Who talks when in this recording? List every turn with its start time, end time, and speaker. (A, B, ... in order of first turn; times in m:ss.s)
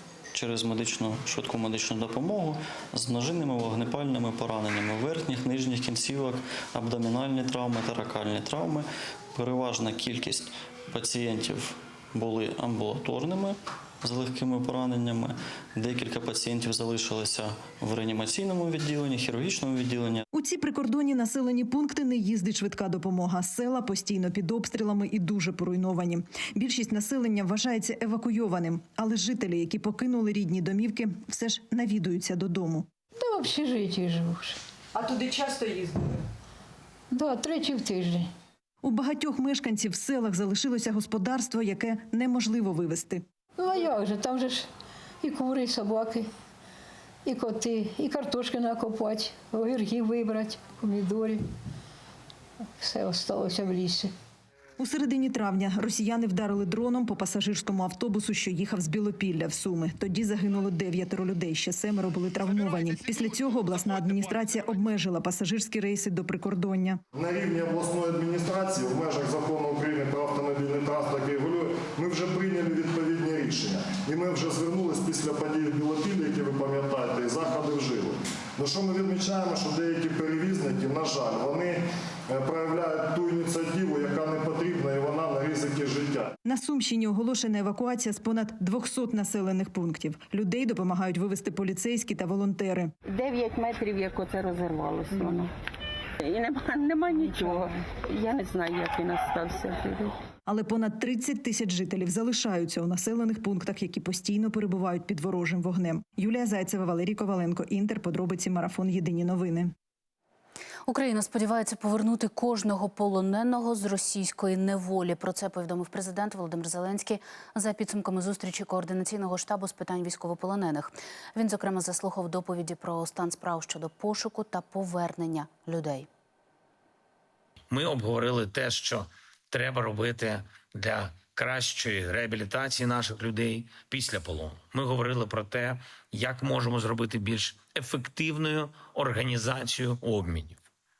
0:00.3-0:20.2 A
0:20.3-0:32.9 B
0:33.2-0:34.6 C
0:37.1-0:38.3 C
0:38.8-0:43.2 B
0:43.6-0:44.7 C
0:45.2-0:46.3 C
0:47.2-0:51.4 C
0:52.8-0:54.1 C
0:54.8-1:07.0 B
1:07.1-1:26.3 D
1:26.4-1:32.9 B
1:33.1-1:35.5 E
1:36.2-1:40.2 E
1:40.5-1:49.7 B
1:50.9-2:06.1 F
2:07.7-2:20.6 G